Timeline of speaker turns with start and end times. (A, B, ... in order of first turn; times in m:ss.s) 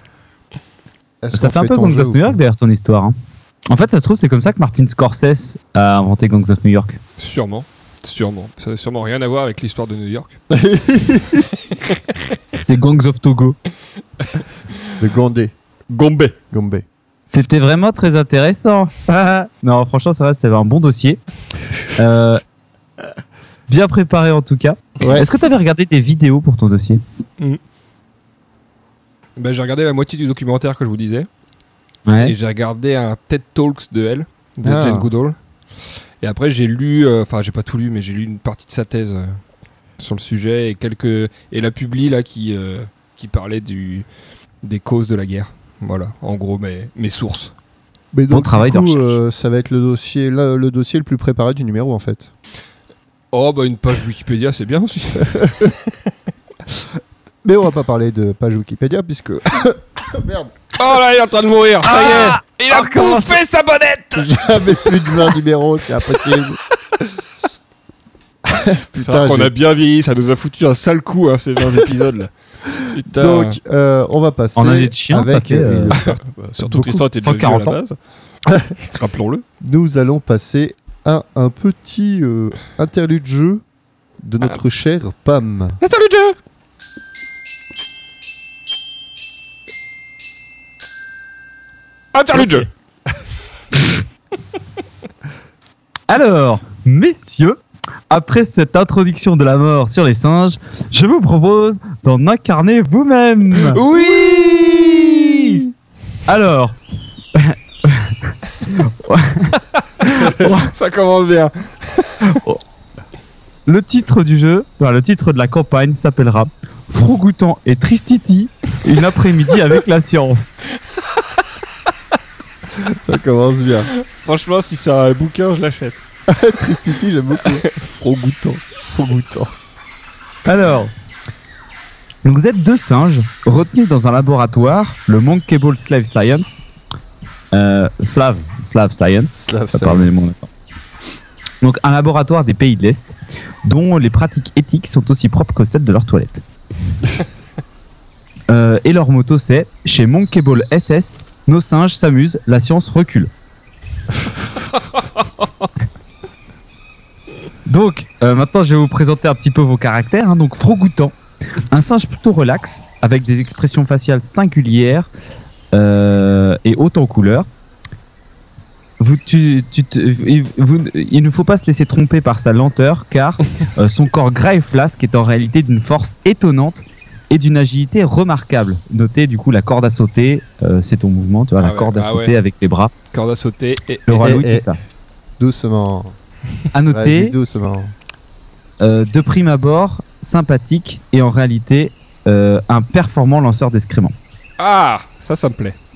0:01.2-0:02.4 A
0:01.3-0:03.1 B
0:03.7-0:07.0 B
0:07.2-0:10.4 C
0:10.5-0:11.5 A
0:11.7-0:12.0 C
0:12.5-0:13.6 B
0:15.0-0:15.5 A
0:15.9-0:16.4 C
0:16.5-0:16.8 A
0:17.3-0:21.2 B
0:22.0-0:22.4 B
0:23.7-0:27.0 B
0:25.0-0:25.3 A
0:29.4-0:31.3 C
0:32.1-0:32.3 B
0:32.2-0:35.4 C
0:34.6-0:35.1 A
0:36.2-0:39.4 C
0:40.0-0:44.0 C
0:44.6-0:47.5 C
0:48.1-0:52.3 A
0:48.3-0:49.1 B
0:53.3-0:56.1 C
0:55.2-0:55.7 A
0:57.4-1:00.5 A
1:00.8-1:05.3 C
1:01.8-1:03.4 B
1:01.9-1:02.3 A
1:04.2-1:06.6 A
1:08.4-1:09.5 A
1:09.0-1:13.6 C
1:13.1-1:16.2 A
1:14.6-1:16.0 B
1:15.9-1:18.0 C
1:16.7-1:17.0 A
1:16.7-1:17.8 B
1:18.5-1:18.7 A
1:18.9-1:19.4 C
1:19.6-1:23.6 A
1:24.2-1:25.8 A
1:25.8-1:26.4 C
1:32.1-1:32.7 C
1:32.3-1:32.7 A
1:36.1-1:43.8 B
1:43.7-1:45.7 C
1:46.3-1:46.8 B
1:47.3-1:50.7 B
1:50.2-1:52.2 C
1:52.2-1:52.6 B
1:53.6-2:00.6 B
2:02.7-2:03.9 A
2:03.9-2:06.0 C
2:06.3-2:07.6 A
2:07.4-2:08.6 C
2:08.9-2:09.5 A
2:10.4-2:10.9 B
2:12.2-2:16.6 B
2:17.5-2:20.5 B
2:19.3-2:20.3 A
2:21.6-2:26.4 B
2:28.5-2:33.3 B
2:37.7-2:45.1 B
2:45.7-2:47.5 B
2:49.0-3:02.9 B
3:01.6-3:02.3 C
3:03.1-3:04.4 C
3:04.1-3:04.8 B
3:04.2-3:04.7 A
3:05.4-3:06.1 A
3:06.7-3:07.3 B
3:06.9-3:07.9 A
3:08.8-3:14.1 B
3:14.6-3:15.8 C